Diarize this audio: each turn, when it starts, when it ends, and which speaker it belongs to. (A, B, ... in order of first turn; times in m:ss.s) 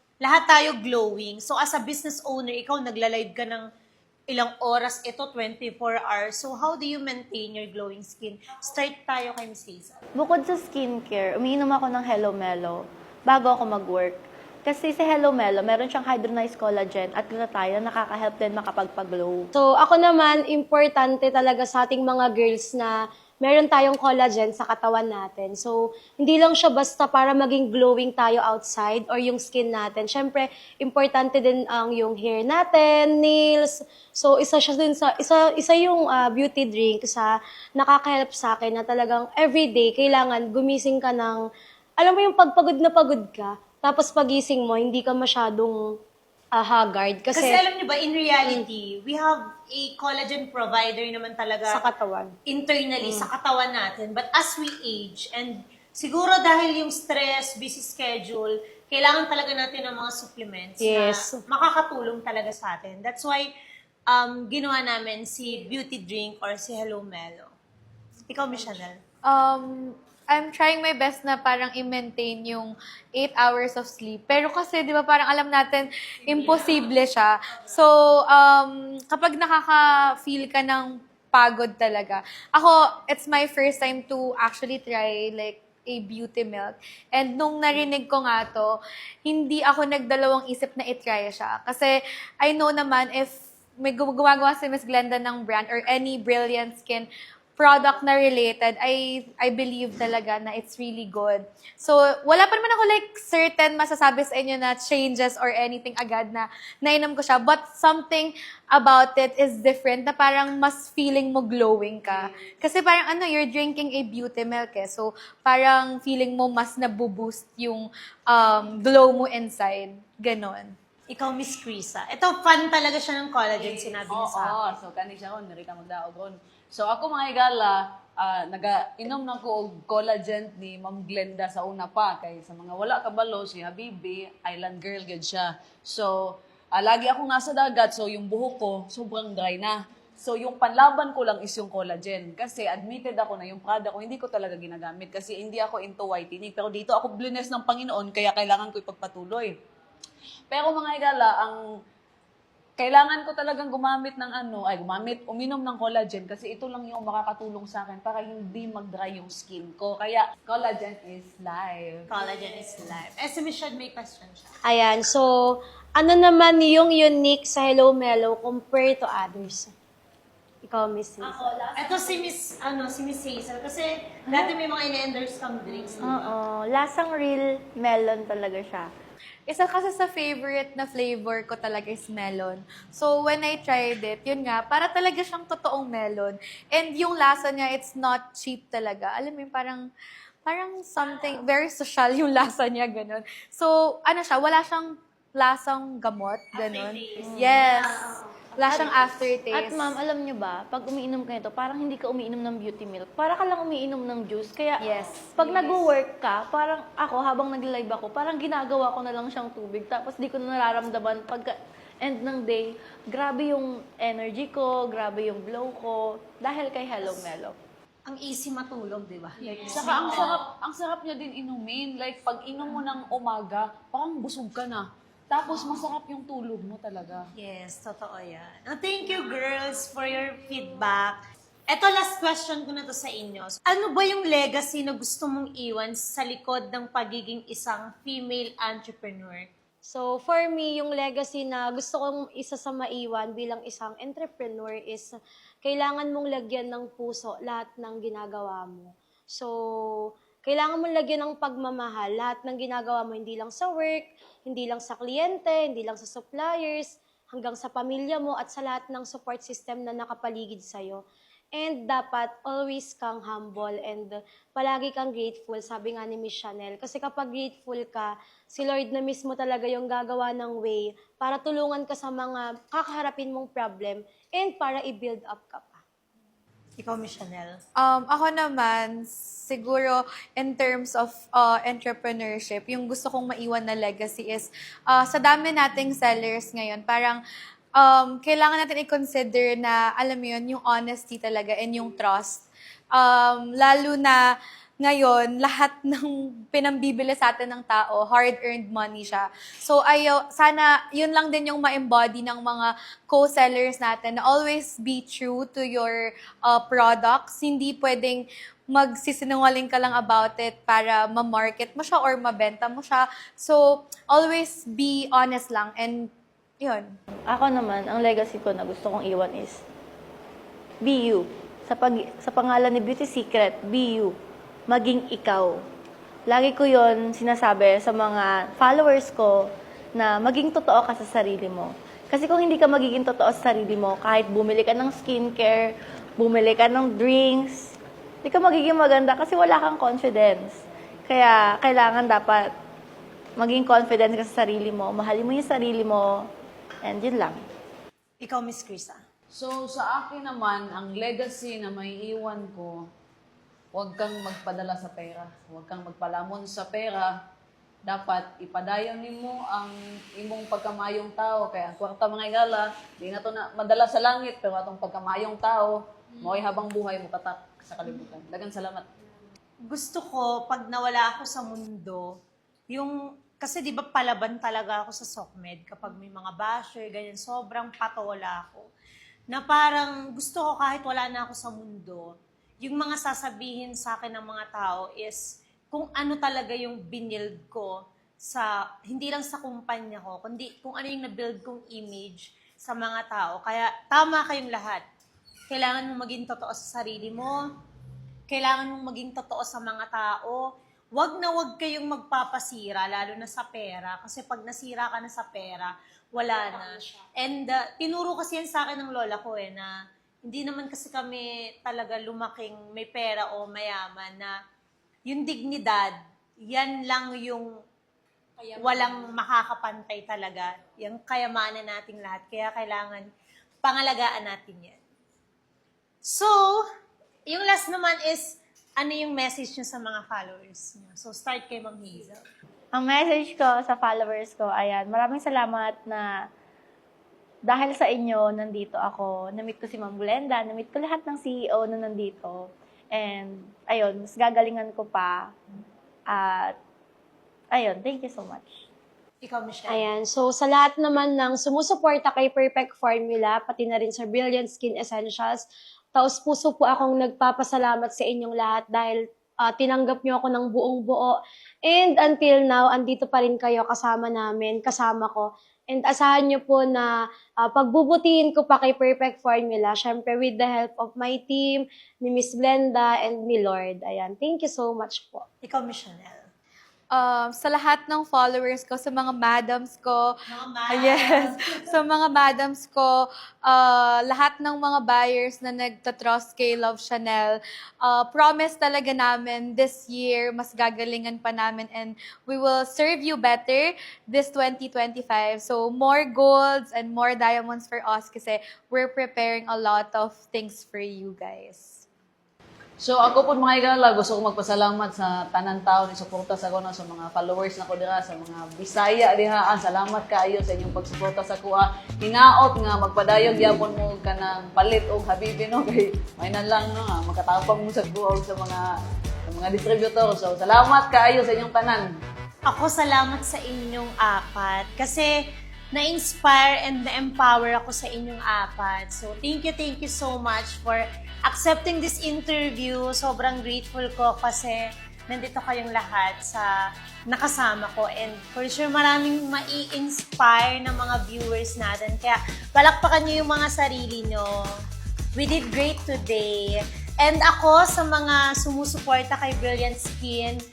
0:00.2-0:03.7 A
0:04.3-0:10.0 A
0:10.2-0:19.5 B
0:19.6-0:41.4 C
0:42.0-0:45.8 C
0:46.6-0:47.6 C
0:47.3-0:51.9 A
0:51.7-0:52.4 C
0:52.5-1:03.5 A
0:53.0-0:53.3 C
1:00.8-1:01.4 C
1:04.1-1:07.5 A
1:08.3-1:09.0 A
1:09.3-1:28.7 D
1:29.2-2:00.8 D
2:01.1-2:04.6 A
2:03.6-2:16.1 E
2:16.7-2:29.6 E
2:30.5-2:31.6 E
2:32.8-2:42.1 E
2:42.1-2:44.5 A
2:44.7-2:49.7 C
2:50.6-2:51.5 C
2:51.2-2:52.3 B
2:51.8-2:56.4 A
2:55.7-2:58.9 B
2:59.5-3:09.9 D
3:10.5-3:19.9 D
3:16.5-3:19.0 A
3:17.2-3:17.6 B
3:18.6-3:19.0 B
3:19.5-3:37.6 B
3:24.8-3:25.7 D
3:38.1-3:40.4 A
3:39.5-3:47.3 E
3:47.4-3:51.2 A
3:51.7-3:59.5 A
3:59.8-4:09.5 C
4:10.4-4:21.0 C
4:21.6-4:35.8 C
4:36.8-4:37.6 A
4:37.8-4:47.2 D
4:47.8-4:54.2 D
4:54.8-5:16.9 D
5:17.3-5:19.6 B
5:20.8-5:24.2 B
5:24.7-5:25.6 B
5:26.3-5:42.5 B
5:43.4-5:46.3 B
5:46.8-5:47.4 B
5:48.2-5:49.0 A
5:49.3-5:52.8 E
5:53.7-5:57.2 E
5:57.8-6:08.9 E
6:09.6-6:12.1 A
6:12.7-6:18.7 A
6:19.3-6:34.8 A
6:35.5-6:37.4 A
6:38.3-6:49.7 A
6:46.2-6:47.0 C
6:50.2-6:54.3 A
6:55.1-6:57.5 A
6:58.6-7:03.1 A
7:03.6-7:04.8 A
7:06.0-7:06.6 A
7:07.3-7:12.2 A
7:12.7-7:16.1 B
7:17.5-7:25.4 B
7:26.1-7:26.6 B
7:27.5-7:28.6 B
7:29.2-7:29.8 A
7:29.7-7:35.4 C
7:36.0-7:46.9 C
7:47.4-7:55.2 C
7:55.4-7:56.3 A
7:56.9-8:00.2 D
8:00.3-8:01.6 A
8:00.7-8:21.9 D
8:22.8-8:38.7 E
8:39.3-8:41.9 E
8:42.5-8:45.1 A
8:45.7-8:56.5 A
8:57.1-9:04.3 A
9:05.2-9:10.4 A